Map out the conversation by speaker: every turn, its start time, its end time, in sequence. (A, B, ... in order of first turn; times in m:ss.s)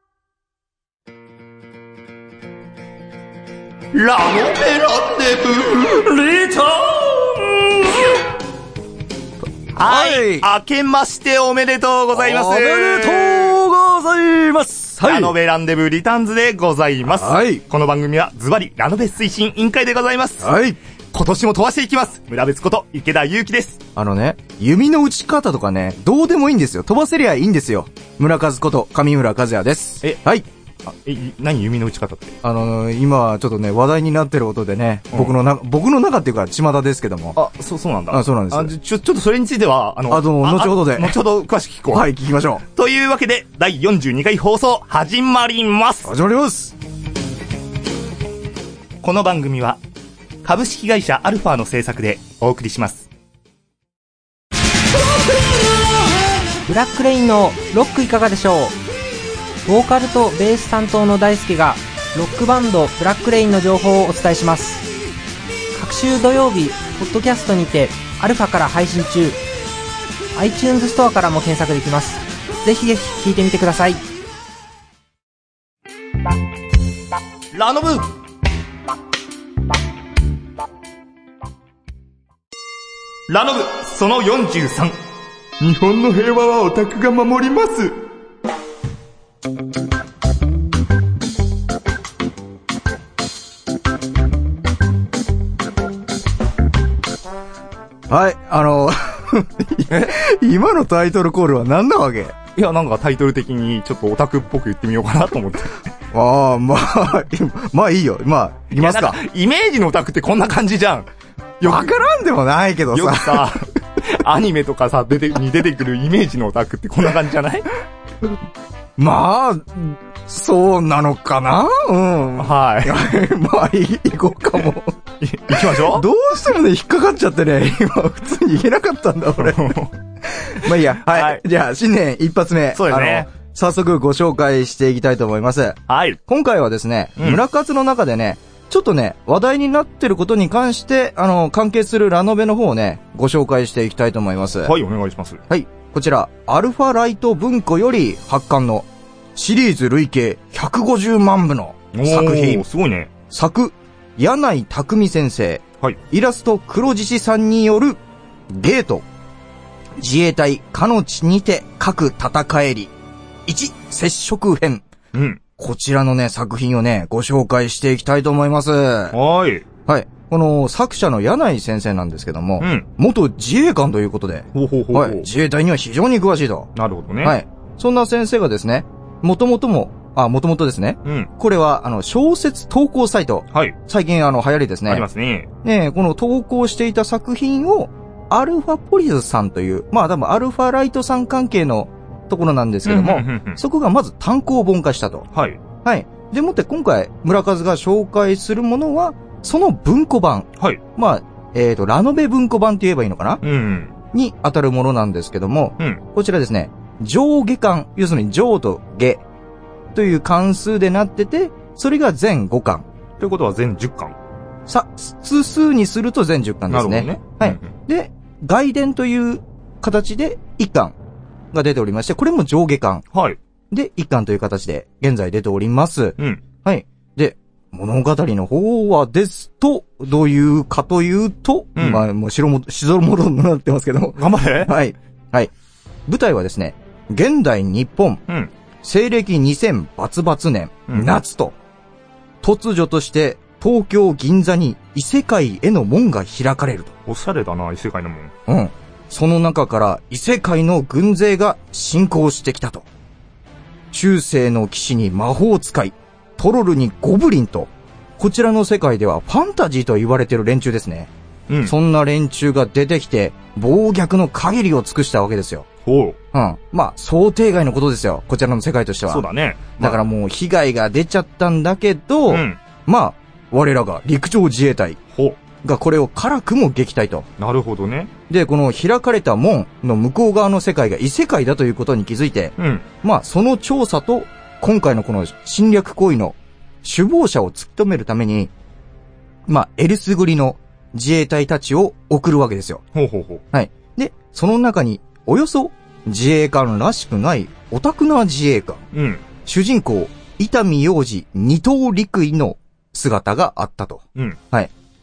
0:03.9-0:07.2 A
0:09.8-0:13.6 A
0:09.8-0:10.5 B
0:12.2-0:15.3 B
0:15.0-0:20.5 A
0:17.1-0:17.6 B
0:20.4-0:20.8 B
0:21.1-0:23.8 A
0:24.0-0:30.5 B
0:30.9-0:32.4 A
0:32.4-0:37.4 B
0:37.4-0:42.1 A
0:38.1-0:38.7 B
0:40.1-0:41.2 B
0:41.9-0:42.6 B
0:42.7-0:46.1 A
0:46.0-0:46.8 B
0:49.0-0:49.8 A
0:50.4-0:53.1 A
0:56.7-0:58.8 C
0:59.6-1:04.9 C
1:05.8-1:09.4 C
1:10.4-1:14.0 C
1:17.5-1:18.1 A
1:23.3-1:25.0 A
1:25.6-1:28.0 A
1:38.1-1:42.4 B
1:39.9-1:40.2 A
1:42.6-1:45.8 A
1:46.1-1:49.2 B
1:48.7-1:52.0 A
1:51.6-1:53.6 B
1:52.9-1:57.7 A
1:59.0-2:05.0 B
2:02.4-2:03.0 A
2:05.2-2:06.1 A
2:05.6-2:24.7 B
2:09.4-2:09.9 A
2:10.6-2:11.4 A
2:12.7-2:13.3 A
2:15.9-2:16.2 A
2:24.6-2:25.4 A
2:25.5-2:32.7 B
2:31.9-2:33.1 A
2:33.3-2:38.0 B
2:38.5-2:39.0 B
2:40.0-2:42.9 B
2:43.5-2:44.8 B
2:45.1-2:45.4 A
2:45.6-2:49.2 B
2:49.1-2:49.6 A
2:49.9-2:56.7 B
2:52.6-2:52.9 A
2:54.5-2:55.3 A
2:56.8-2:57.4 A
2:57.2-3:05.1 B
3:04.9-3:05.5 A
3:05.6-3:15.3 B
3:12.8-3:13.6 A
3:15.3-3:15.6 A
3:15.8-3:23.4 B
3:23.4-3:23.9 A
3:24.1-3:29.2 B
3:30.0-3:32.8 B
3:33.2-3:34.2 A
3:34.7-3:41.0 B
3:36.7-3:37.7 A
3:41.5-3:43.0 B
3:43.1-3:43.4 A
3:43.7-3:55.5 B
3:51.8-3:52.0 A
3:54.2-3:54.7 A
3:56.1-3:58.2 B
3:58.8-4:01.6 B
4:00.9-4:01.2 A
4:02.4-4:07.0 B
4:07.1-4:08.3 A
4:08.5-4:12.9 B
4:13.9-4:21.1 B
4:21.5-4:21.7 A
4:21.6-4:25.7 B
4:25.8-4:26.2 A
4:26.3-4:29.2 B
4:29.1-4:30.0 A
4:29.8-4:35.0 B
4:32.3-4:32.6 A
4:35.1-4:35.4 A
4:35.6-4:37.3 B
4:37.4-4:38.1 A
4:38.3-4:48.5 B
4:42.6-4:42.9 A
4:49.5-4:52.8 B
4:52.9-4:53.4 A
4:53.5-4:58.8 B
4:58.9-4:59.2 A
4:59.4-5:04.7 B